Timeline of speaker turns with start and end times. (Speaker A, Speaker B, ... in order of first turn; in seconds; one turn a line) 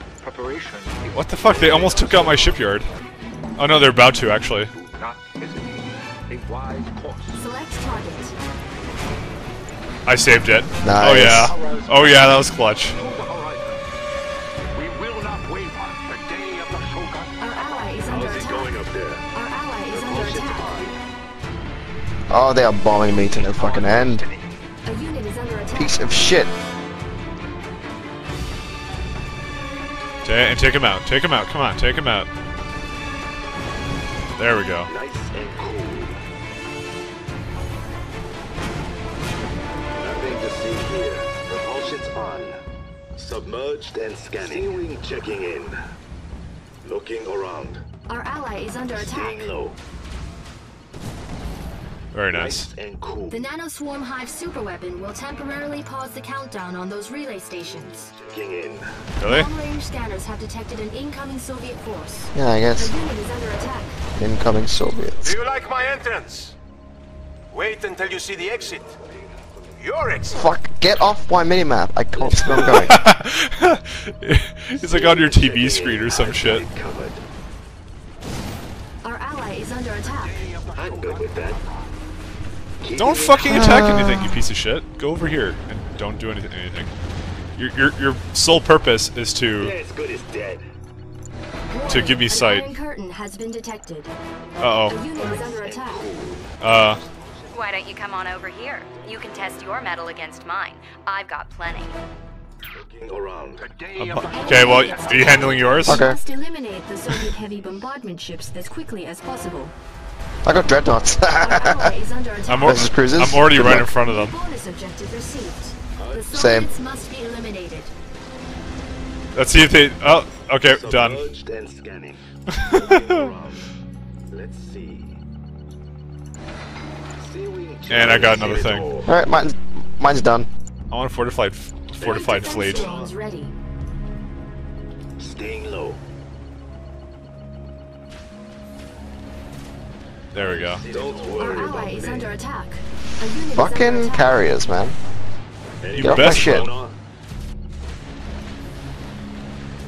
Speaker A: 0.2-2.9
Speaker B: 1.1-2.9
Speaker B: 3.6-4.7
Speaker A: 4.7-7.5
Speaker C: 7.3-8.3
Speaker B: 10.1-13.0
Speaker D: 10.8-11.6
Speaker A: 11.3-13.8
Speaker A: 14.7-17.9
Speaker C: 17.4-18.7
Speaker E: 18.1-19.3
Speaker C: 19.3-20.9
Speaker E: 19.9-20.9
Speaker D: 22.3-24.2
Speaker A: 22.9-24.6
Speaker C: 24.9-26.0
Speaker D: 25.7-26.5
Speaker B: 30.2-32.3
Speaker B: 34.4-34.9
Speaker E: 34.9-36.2
Speaker E: 40.0-42.6
Speaker E: 43.2-45.8
Speaker E: 46.8-47.8
Speaker C: 48.1-49.5
Speaker E: 48.9-49.8
Speaker B: 52.1-52.7
Speaker E: 52.3-53.4
Speaker C: 53.3-58.1
Speaker E: 57.6-58.9
Speaker B: 59.2-59.5
Speaker C: 59.2-64.0
Speaker D: 62.4-62.9
Speaker D: 64.2-65.3
Speaker F: 65.2-66.5
Speaker F: 67.5-69.0
Speaker E: 69.0-69.7
Speaker F: 69.8-70.5
Speaker D: 70.3-73.0
Speaker B: 72.5-76.7
Speaker E: 72.6-72.9
Speaker E: 74.8-77.2
Speaker C: 79.0-80.4
Speaker A: 80.0-81.8
Speaker E: 80.8-81.6
Speaker E: 82.8-83.9
Speaker B: 83.0-86.9
Speaker D: 83.4-84.4
Speaker B: 87.6-89.7
Speaker E: 89.6-90.6
Speaker C: 91.7-94.1
Speaker B: 91.9-92.7
Speaker B: 94.6-95.0
Speaker C: 94.9-96.1
Speaker E: 95.2-97.4
Speaker B: 96.6-97.0
Speaker G: 97.5-102.0
Speaker E: 99.0-99.5
Speaker E: 102.7-103.7
Speaker A: 103.6-105.8
Speaker B: 104.0-106.0
Speaker C: 104.3-109.8
Speaker D: 105.9-106.2
Speaker D: 110.5-111.9
Speaker C: 111.4-112.9
Speaker B: 112.5-114.3
Speaker D: 112.6-113.9
Speaker C: 113.8-117.9
Speaker E: 116.0-116.4
Speaker D: 116.3-116.7
Speaker B: 119.3-121.2
Speaker E: 120.7-123.7
Speaker B: 122.5-123.3
Speaker E: 124.3-125.2
Speaker E: 127.2-129.1
Speaker B: 127.9-128.9
Speaker D: 129.1-130.5
Speaker B: 130.9-132.9
Speaker E: 132.0-133.2
Speaker C: 132.0-133.5
Speaker E: 135.2-136.0
Speaker B: 140.3-140.8
Speaker E: 140.3-142.3
Speaker C: 141.3-144.4
Speaker D: 143.5-145.0
Speaker E: 145.8-146.9
Speaker B: 145.9-146.8
Speaker D: 146.0-146.7